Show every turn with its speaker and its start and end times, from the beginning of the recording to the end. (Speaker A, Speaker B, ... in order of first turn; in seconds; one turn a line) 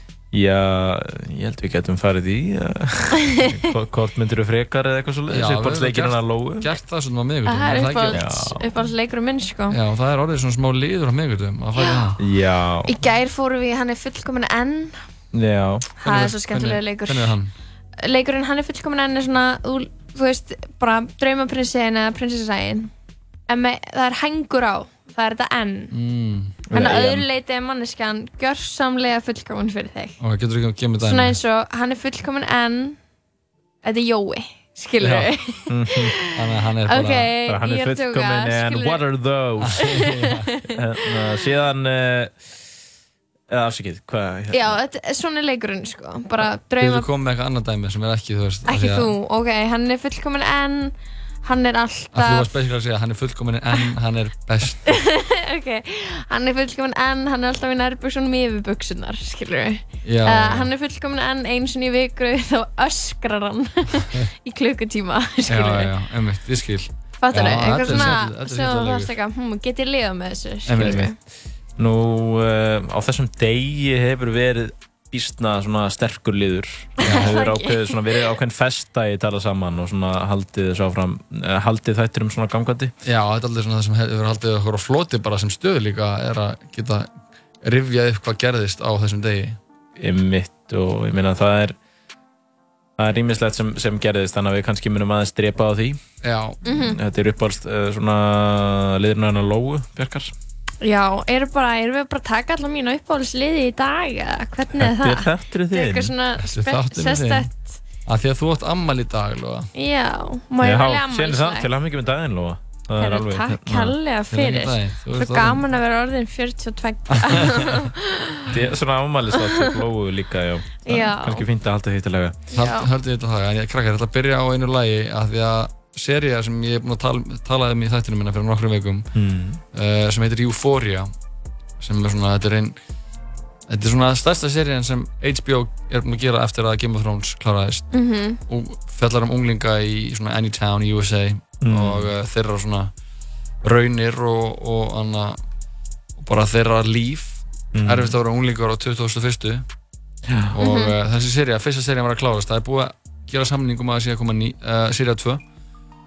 Speaker A: 0.3-6.7
Speaker B: 5.3-8.3
Speaker C: 7.5-9.8
Speaker A: 8.1-8.7
Speaker B: 9.7-12.2
Speaker C: 11.8-12.1
Speaker A: 12.2-13.0
Speaker C: 12.9-15.0
Speaker A: 15.3-15.8
Speaker C: 16.0-17.4
Speaker B: 16.0-17.5
Speaker C: 18.0-22.9
Speaker C: 23.5-25.9
Speaker B: 25.9-26.6
Speaker A: 26.7-27.3
Speaker C: 26.7-30.2
Speaker B: 30.2-31.4
Speaker C: 31.0-33.0
Speaker C: 33.8-35.6
Speaker B: 35.0-35.3
Speaker A: 35.7-36.1
Speaker B: 36.3-37.3
Speaker C: 36.9-39.0
Speaker A: 37.5-40.1
Speaker B: 39.6-40.4
Speaker C: 39.9-40.2
Speaker A: 40.7-42.6
Speaker A: 43.5-44.8
Speaker C: 44.5-47.1
Speaker B: 46.8-49.1
Speaker C: 48.7-52.5
Speaker B: 52.1-55.0
Speaker C: 54.9-65.9
Speaker B: 60.0-60.7
Speaker B: 65.5-69.1
Speaker C: 67.2-71.2
Speaker B: 70.7-71.1
Speaker A: 70.8-71.2
Speaker A: 71.8-82.9
Speaker B: 77.1-77.3
Speaker C: 77.1-78.0
Speaker B: 83.0-87.1
Speaker B: 87.6-89.6
Speaker A: 90.0-91.8
Speaker A: 93.0-96.0
Speaker B: 96.2-96.6
Speaker C: 96.7-97.0
Speaker A: 96.7-100.3
Speaker C: 100.8-107.8
Speaker A: 104.8-106.1
Speaker B: 106.4-107.5
Speaker B: 108.1-109.7
Speaker C: 109.8-111.7
Speaker A: 110.6-114.0
Speaker C: 113.0-118.1
Speaker B: 114.3-115.7
Speaker B: 117.1-117.7
Speaker A: 118.5-122.4
Speaker C: 119.4-119.8
Speaker C: 120.8-121.5
Speaker C: 122.5-122.9
Speaker B: 122.5-129.1
Speaker A: 129.2-129.6
Speaker B: 129.7-131.1
Speaker B: 131.8-132.8
Speaker B: 133.7-137.9
Speaker C: 137.9-138.4
Speaker B: 138.5-142.9
Speaker A: 141.6-142.1
Speaker B: 143.6-145.4
Speaker B: 146.2-149.7
Speaker A: 147.7-148.2
Speaker A: 150.3-150.5
Speaker B: 150.5-155.4
Speaker C: 150.6-150.9